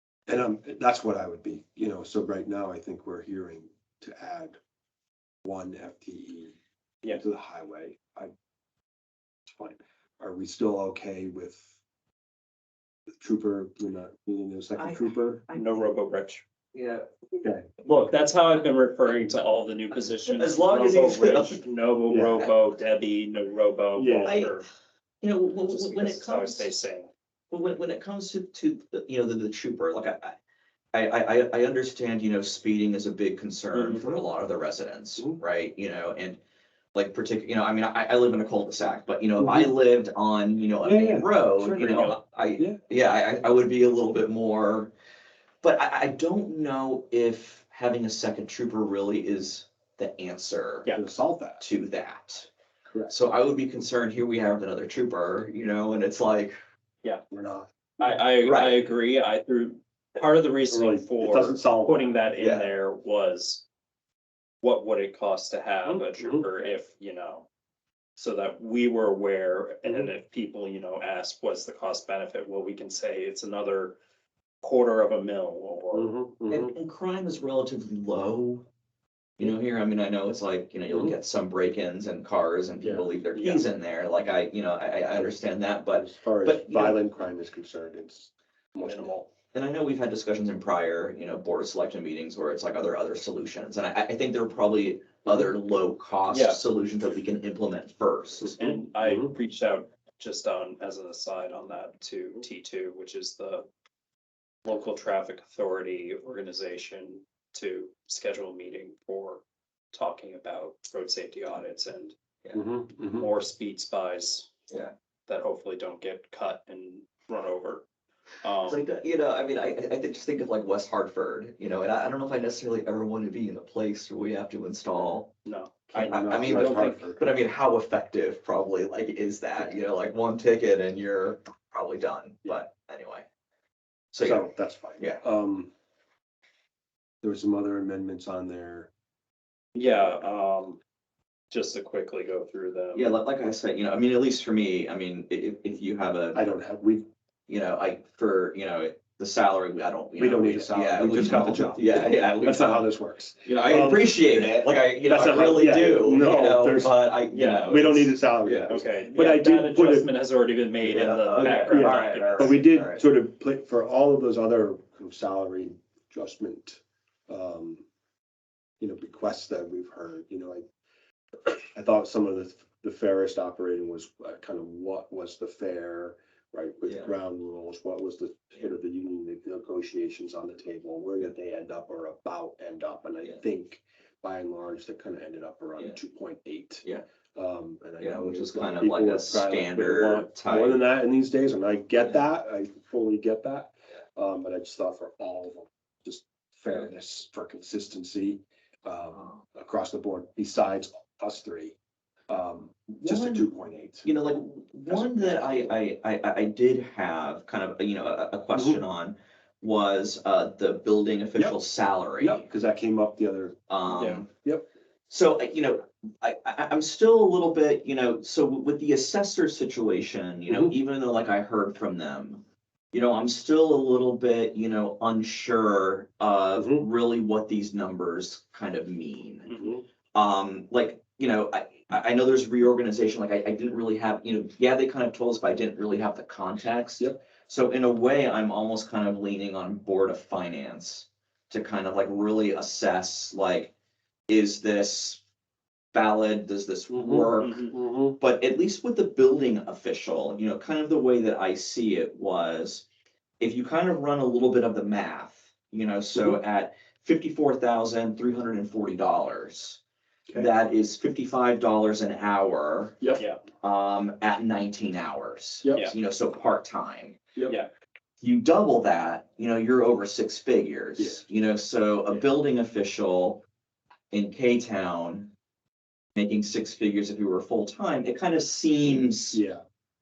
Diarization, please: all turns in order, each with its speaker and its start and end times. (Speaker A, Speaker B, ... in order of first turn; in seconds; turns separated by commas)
Speaker A: 0.3-4.6, Speaker A: 5.4-6.5, Speaker A: 7.0-8.3, Speaker A: 9.4-11.7, Speaker A: 13.2-15.4, Speaker B: 14.8-15.9, Speaker C: 15.5-16.4, Speaker B: 16.7-17.1, Speaker A: 17.4-17.7, Speaker B: 17.8-18.1, Speaker C: 17.9-24.6, Speaker B: 20.2-21.6, Speaker A: 22.1-22.4, Speaker A: 23.9-24.4, Speaker B: 24.2-24.6, Speaker B: 25.2-26.7, Speaker C: 25.7-27.1, Speaker B: 27.5-30.4, Speaker B: 30.9-36.4, Speaker C: 33.7-34.1, Speaker B: 36.9-44.9, Speaker A: 39.4-39.7, Speaker A: 40.8-42.8, Speaker B: 45.6-50.9, Speaker A: 50.9-51.6, Speaker B: 51.6-52.5, Speaker B: 53.1-56.6, Speaker A: 57.3-57.7, Speaker C: 58.0-63.6, Speaker B: 58.4-58.9, Speaker A: 60.7-62.1, Speaker B: 62.4-62.7, Speaker C: 64.6-67.5, Speaker A: 65.8-66.5, Speaker C: 68.2-74.0, Speaker A: 69.8-70.1, Speaker C: 74.6-76.1, Speaker A: 75.9-76.7, Speaker B: 76.5-78.7, Speaker B: 79.4-87.0, Speaker A: 80.9-81.2, Speaker A: 82.8-83.6, Speaker A: 85.9-89.3, Speaker C: 88.8-89.2, Speaker B: 89.5-98.5, Speaker C: 96.3-96.6, Speaker C: 98.6-103.7, Speaker A: 98.6-99.3, Speaker C: 104.7-109.4, Speaker C: 109.9-112.1, Speaker A: 112.5-113.3, Speaker C: 113.2-114.5, Speaker C: 115.3-117.8, Speaker C: 118.4-118.8, Speaker B: 118.6-125.3, Speaker C: 125.4-127.0, Speaker A: 125.9-127.2, Speaker B: 125.9-133.2, Speaker B: 134.1-134.5, Speaker A: 134.2-135.7, Speaker A: 137.2-138.9, Speaker C: 139.7-140.8, Speaker C: 141.5-143.2, Speaker B: 142.9-146.4, Speaker A: 146.3-147.0, Speaker B: 147.5-152.9, Speaker A: 150.2-154.5, Speaker B: 153.4-158.7, Speaker A: 155.0-156.9, Speaker C: 157.3-157.8, Speaker A: 157.7-160.1, Speaker C: 158.7-162.6, Speaker B: 160.8-163.0, Speaker A: 161.4-167.8, Speaker A: 168.8-170.7, Speaker A: 171.5-201.8, Speaker B: 176.8-177.1, Speaker B: 188.0-190.8, Speaker A: 202.3-204.1, Speaker B: 202.9-203.5, Speaker B: 204.0-212.4, Speaker A: 204.9-205.8, Speaker A: 208.5-208.8, Speaker A: 212.2-213.6, Speaker B: 213.7-214.3, Speaker C: 213.9-214.2, Speaker B: 215.1-229.5, Speaker A: 220.5-220.7, Speaker A: 226.6-226.9, Speaker C: 229.4-229.7, Speaker A: 229.5-229.8, Speaker B: 230.1-243.7, Speaker B: 244.3-245.2, Speaker B: 245.9-252.8, Speaker A: 246.9-248.2, Speaker C: 247.4-247.7, Speaker B: 253.4-259.8, Speaker A: 256.1-256.4, Speaker B: 260.3-267.2, Speaker A: 265.6-265.9, Speaker B: 268.2-273.4, Speaker A: 271.0-271.2, Speaker B: 274.1-275.3, Speaker B: 276.1-279.4, Speaker A: 279.3-279.6